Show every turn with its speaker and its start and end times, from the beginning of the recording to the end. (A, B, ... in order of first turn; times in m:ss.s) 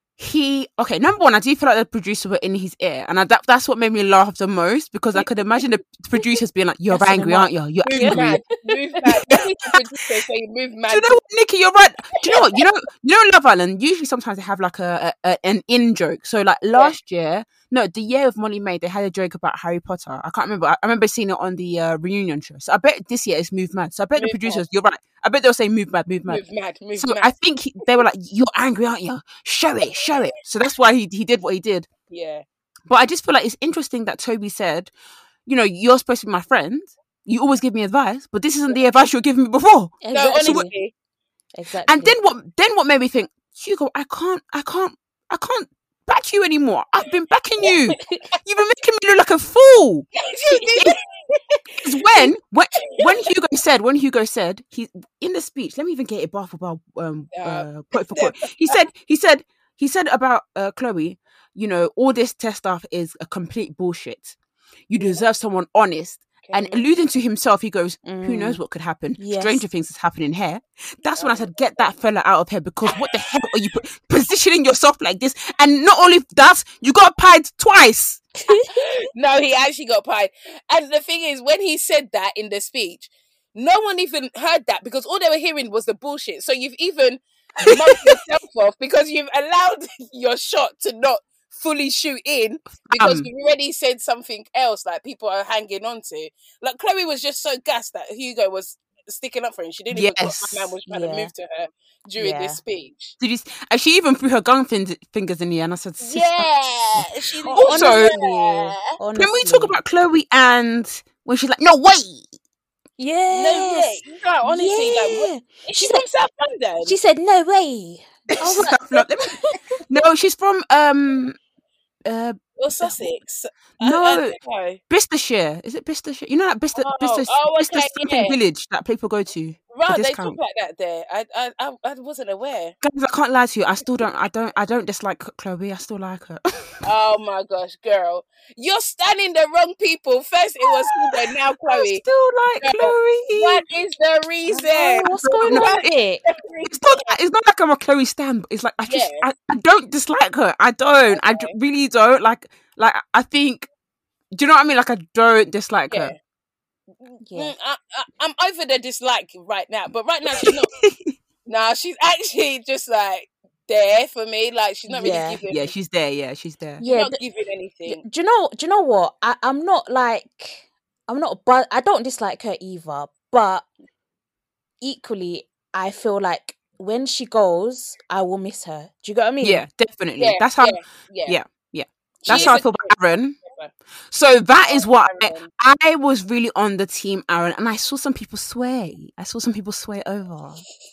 0:00.2-0:08.4 A
0:06.9-0:09.2 B
0:07.9-0:11.2 C
0:09.3-0:09.6 A
0:10.9-0:26.4 A
0:24.1-0:24.6 C
0:26.3-0:27.3 C
0:27.0-0:31.9 A
0:32.1-0:32.4 C
0:32.9-0:34.9 A
0:35.5-0:40.7 A
0:40.0-0:40.7 B
0:40.1-0:40.9 C
0:41.5-0:42.2 B
0:41.9-0:51.0 A
0:47.7-0:48.0 C
0:50.2-0:52.3 C
0:51.8-1:04.4 A
0:52.8-0:53.3 C
0:57.3-0:58.8 C
1:04.9-1:18.2 A
1:05.0-1:05.2 C
1:06.4-1:06.9 C
1:08.0-1:08.6 B
1:09.2-1:09.6 B
1:11.2-1:11.5 C
1:18.4-1:18.8 B
1:18.8-1:43.1 C
1:27.6-1:28.1 A
1:32.8-1:33.3 A
1:39.9-1:40.7 A
1:40.9-1:41.3 B
1:42.2-1:42.6 B
1:43.2-1:46.5 A
1:46.0-1:48.8 C
1:47.5-1:49.8 B
1:47.5-1:48.1 A
1:49.1-1:52.3 A
1:53.0-1:56.0 B
1:53.3-1:57.0 C
1:56.8-1:59.6 B
1:58.4-1:59.3 A
1:59.9-2:01.4 A
2:02.1-2:02.9 A
2:02.6-2:04.8 C
2:03.8-2:04.4 A
2:04.9-2:10.4 A
2:06.8-2:08.4 C
2:09.7-2:12.8 C
2:12.8-2:16.8 A
2:16.8-2:22.0 C
2:21.0-2:23.6 A
2:22.6-2:27.1 C
2:24.5-2:26.2 B
2:25.1-2:25.9 A
2:26.6-2:33.7 A
2:28.9-2:29.2 C
2:31.1-2:31.5 C
2:34.3-2:36.1 A
2:35.9-2:36.2 C
2:37.0-2:40.7 C
2:37.2-2:37.5 B
2:40.3-2:41.1 A
2:41.5-2:45.7 C
2:44.9-2:45.4 B
2:45.5-2:46.8 A
2:46.8-2:47.2 B
2:46.8-2:48.0 C
2:47.9-2:53.7 B
2:54.8-2:59.6 B
2:59.4-3:03.4 A
3:00.2-3:01.4 C
3:02.2-3:02.9 C
3:02.3-3:02.6 B
3:03.4-3:03.7 C
3:04.1-3:10.6 A
3:04.6-3:05.5 C